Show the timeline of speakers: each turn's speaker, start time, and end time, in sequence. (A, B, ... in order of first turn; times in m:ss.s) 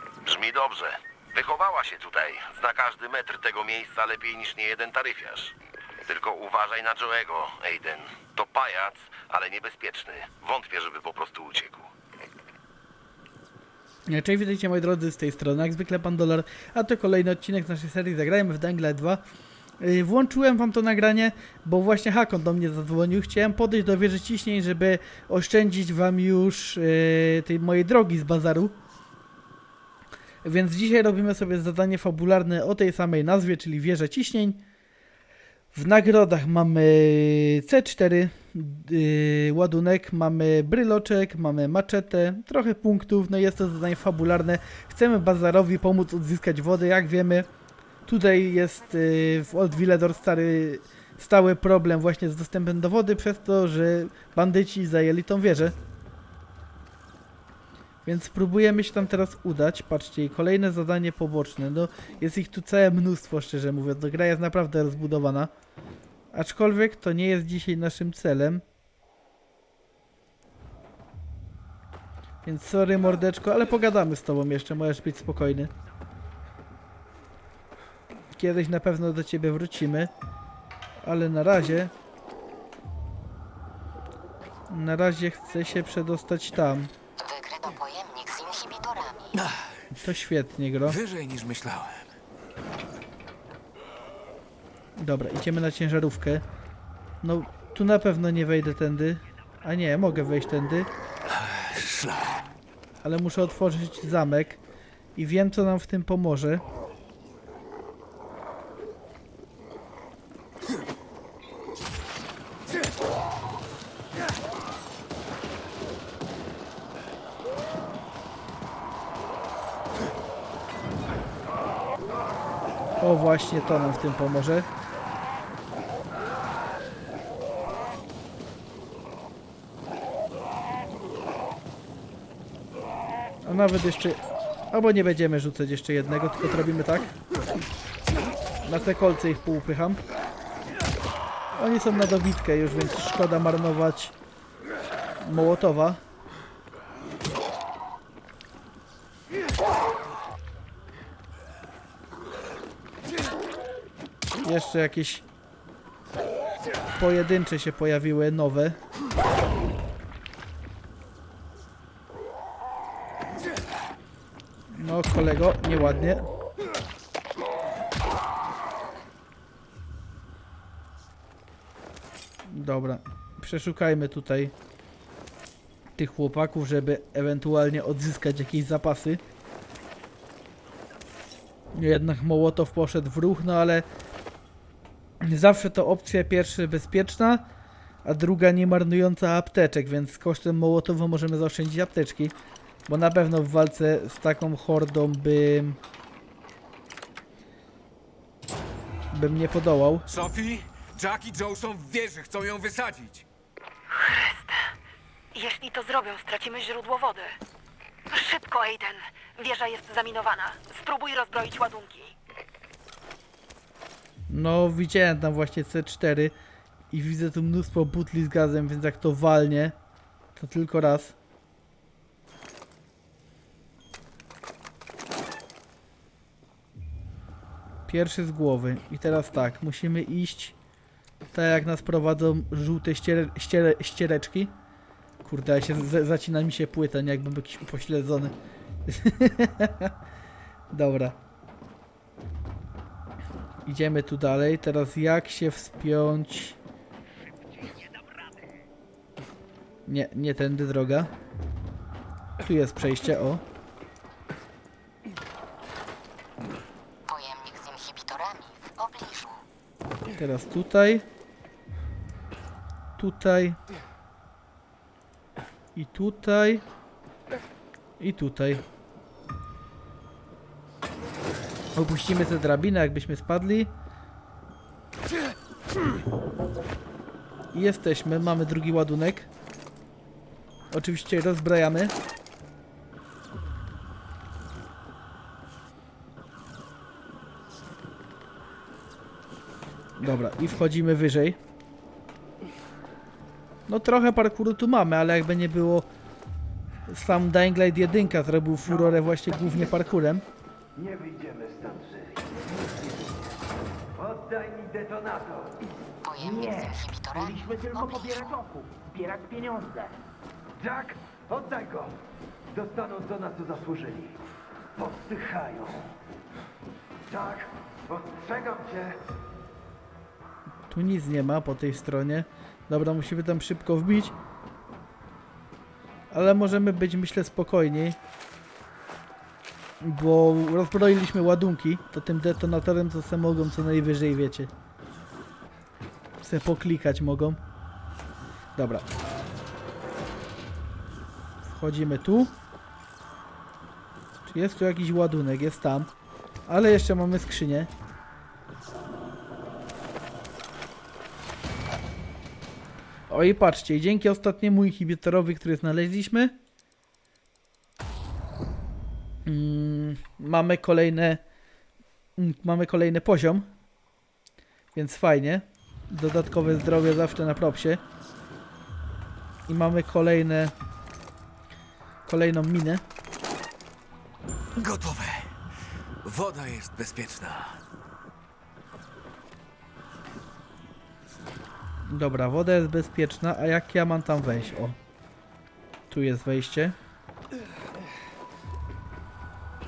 0:00.2-0:11.9 A
0:14.1-0:19.2 B
0:19.8-0:28.8 B
0:30.4-0:34.6 B
0:35.7-0:47.5 B
0:48.1-0:55.8 B
0:58.0-1:05.5 B
1:06.3-1:08.6 B
1:12.4-1:15.7 B
1:18.3-1:20.1 B
1:21.0-1:21.9 B
1:24.7-1:26.9 B
1:27.2-1:29.4 C
1:29.4-1:29.7 D
1:30.0-1:31.0 B
1:30.8-1:32.1 D
1:35.0-1:36.4 B
1:37.2-1:40.9 B
1:41.7-1:42.2 D
1:43.0-1:44.6 B
1:45.2-1:46.6 B
2:03.0-2:04.7 B
2:13.4-2:17.1 B
2:18.6-2:20.0 B
2:21.6-2:24.2 B
2:25.2-2:26.0 B
2:34.4-2:35.2 B
2:37.0-2:38.8 B
2:44.7-2:46.3 B
2:52.5-2:54.5 B
2:56.0-2:59.2 B
3:01.8-3:03.9 B
3:05.2-3:07.5 B
3:08.0-3:12.4 B
3:12.9-3:15.8 B
3:19.1-3:20.1 B
3:20.1-3:23.3 D
3:23.9-3:24.7 E
3:25.3-3:27.4 E
3:28.1-3:32.2 E
3:34.3-3:36.4 B
3:36.9-3:39.8 B
3:40.4-3:41.2 B
3:47.9-3:50.6 B
3:51.3-3:54.6 B
3:55.2-3:58.4 B
3:58.9-3:59.9 B
4:00.7-4:01.2 B
4:03.7-4:06.6 B
4:09.9-4:11.1 B
4:12.4-4:13.4 B
4:17.1-4:19.4 C
4:20.2-4:21.1 B
4:23.0-4:23.6 B
4:25.8-4:26.7 B
4:28.0-4:28.6 B
4:31.8-4:33.7 B
4:37.5-4:39.3 B
4:40.7-4:41.9 B
4:50.0-4:51.4 B
4:53.7-4:55.9 B
4:56.9-5:00.3 B
5:00.8-5:03.0 F
5:04.0-5:05.5 F
5:06.0-5:08.4 C
5:06.2-5:06.8 F
5:07.3-5:09.9 F
5:10.6-5:12.0 F
5:12.5-5:14.2 F
5:14.8-5:15.8 F
5:17.1-5:19.0 F
5:20.7-5:24.2 B
5:26.1-5:28.0 B
5:29.8-5:34.5 B
5:36.2-5:37.4 B
5:38.6-5:38.9 B
5:41.4-5:42.4 B
5:44.2-5:45.9 B
5:46.5-5:47.7 B
5:53.1-5:56.4 B
5:59.2-6:01.2 B
6:02.2-6:03.5 B
6:04.7-6:07.8 B
6:09.5-6:10.5 B
6:12.1-6:12.8 B
6:14.6-6:15.4 D
6:16.0-6:17.6 D
6:21.9-6:24.8 B
6:25.9-6:26.8 B